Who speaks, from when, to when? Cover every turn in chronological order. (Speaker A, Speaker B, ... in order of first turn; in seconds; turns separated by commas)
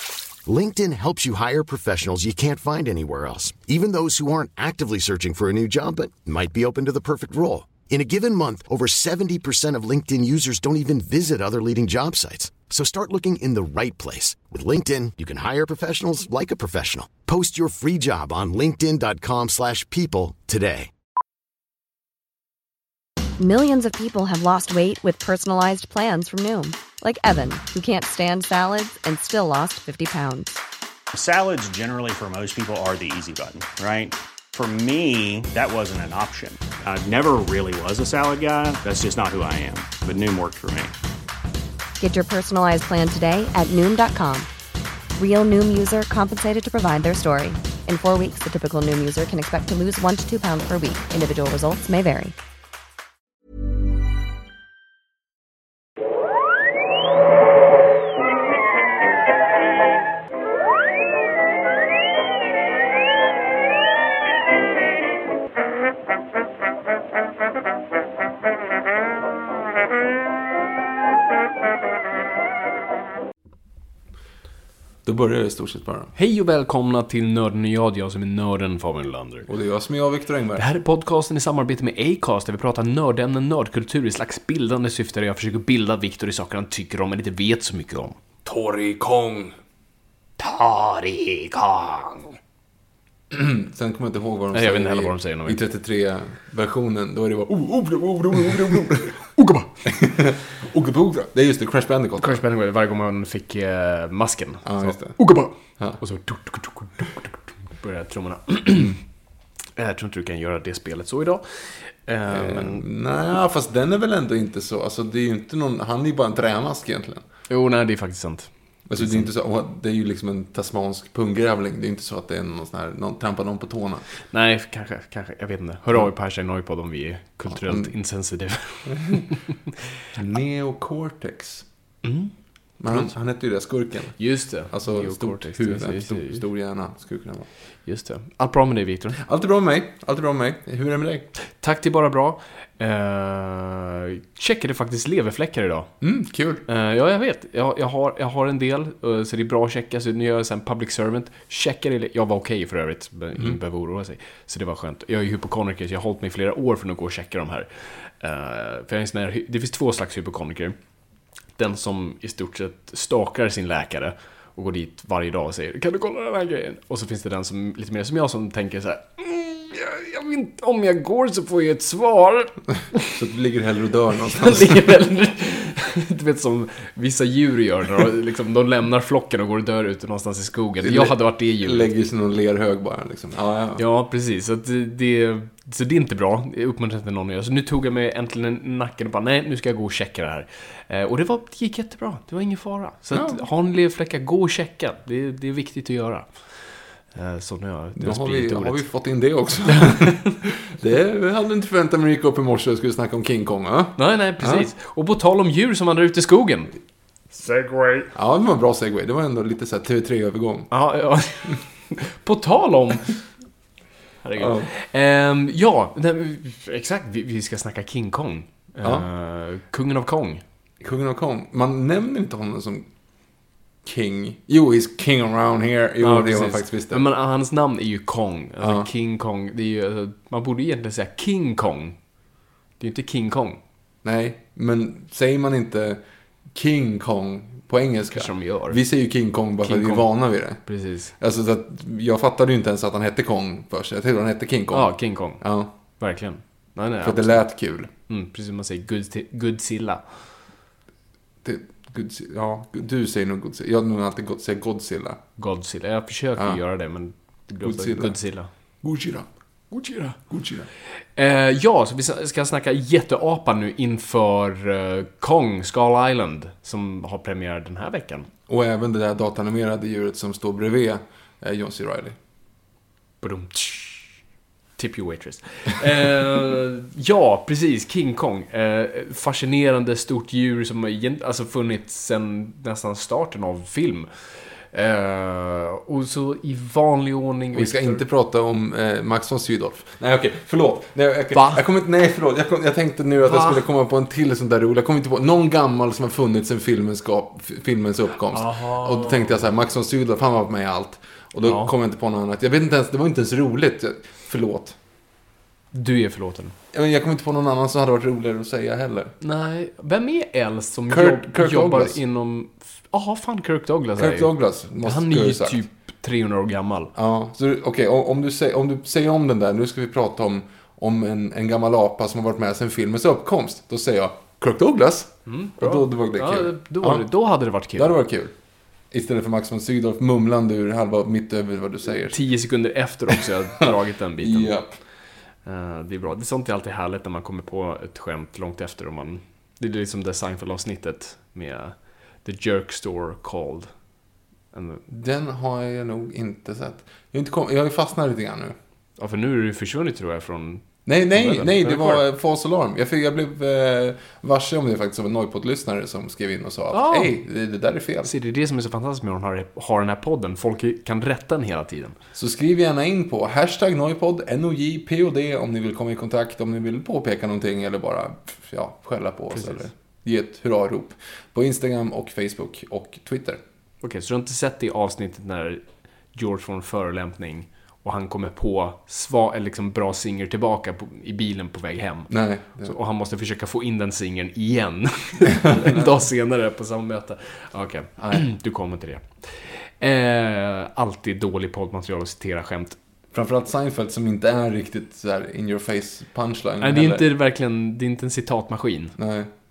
Speaker A: 0.5-20.9, Speaker B: 23.4-30.5, Speaker C: 31.1-40.9, Speaker B: 42.0-44.5, Speaker B: 45.2-52.3, Speaker D: 75.0-76.1, Speaker E: 76.1-79.5, Speaker D: 79.5-80.6, Speaker E: 80.5-88.2, Speaker D: 88.4-89.6, Speaker E: 90.4-92.3, Speaker D: 93.3-99.3, Speaker E: 94.5-95.6, Speaker E: 99.4-99.7, Speaker D: 99.8-102.4, Speaker E: 102.2-109.0, Speaker D: 104.6-106.0, Speaker E: 109.8-112.8, Speaker D: 112.3-117.2, Speaker E: 117.5-119.3, Speaker D: 118.9-124.1, Speaker E: 124.3-129.4, Speaker D: 127.5-127.9, Speaker D: 130.1-131.7, Speaker E: 132.0-132.3, Speaker D: 132.8-137.5, Speaker E: 134.2-136.4, Speaker E: 137.8-139.2, Speaker D: 139.2-141.3, Speaker E: 141.5-145.9, Speaker D: 146.0-146.6, Speaker E: 146.7-160.7, Speaker E: 161.6-173.1, Speaker D: 173.1-174.8, Speaker E: 174.3-181.9, Speaker D: 180.8-183.8, Speaker E: 183.8-198.8, Speaker D: 193.1-193.4, Speaker D: 198.0-204.7, Speaker E: 199.8-200.3, Speaker E: 204.0-206.7, Speaker E: 207.4-208.1, Speaker D: 208.1-210.7, Speaker E: 210.7-213.3, Speaker E: 214.2-220.4, Speaker D: 214.3-214.7, Speaker D: 220.8-222.9, Speaker D: 223.8-227.0, Speaker E: 226.0-232.0, Speaker D: 228.6-228.9, Speaker E: 232.8-233.6, Speaker D: 234.0-245.7, Speaker E: 238.1-238.8, Speaker E: 239.6-241.1, Speaker E: 244.7-247.4, Speaker D: 247.0-247.9, Speaker E: 248.1-250.3, Speaker D: 251.4-255.2, Speaker E: 255.4-258.5, Speaker D: 257.6-258.2, Speaker D: 258.8-259.3, Speaker E: 259.7-260.2, Speaker D: 260.1-260.7, Speaker E: 261.1-268.3, Speaker D: 268.5-272.1, Speaker E: 273.2-274.2, Speaker E: 274.8-288.0, Speaker D: 287.5-304.8, Speaker E: 291.3-291.6, Speaker E: 293.2-293.6, Speaker E: 298.3-299.4, Speaker E: 301.4-301.7, Speaker E: 305.7-306.5, Speaker D: 306.7-309.1, Speaker E: 309.2-316.9, Speaker D: 310.9-312.0, Speaker D: 314.0-315.6, Speaker D: 316.9-327.0, Speaker E: 325.2-327.9, Speaker D: 327.7-328.3, Speaker D: 328.9-332.2, Speaker E: 332.1-334.6, Speaker D: 333.6-334.8, Speaker E: 335.4-343.8, Speaker E: 344.5-344.8, Speaker D: 344.9-348.5, Speaker E: 349.0-352.0, Speaker D: 350.9-358.1, Speaker E: 356.7-357.1, Speaker E: 358.0-361.9, Speaker D: 362.1-373.4, Speaker E: 369.3-369.6, Speaker E: 373.8-392.8, Speaker D: 382.1-382.7, Speaker D: 385.4-385.9, Speaker D: 388.0-388.2, Speaker D: 393.1-397.1, Speaker E: 396.6-398.9, Speaker D: 399.0-399.3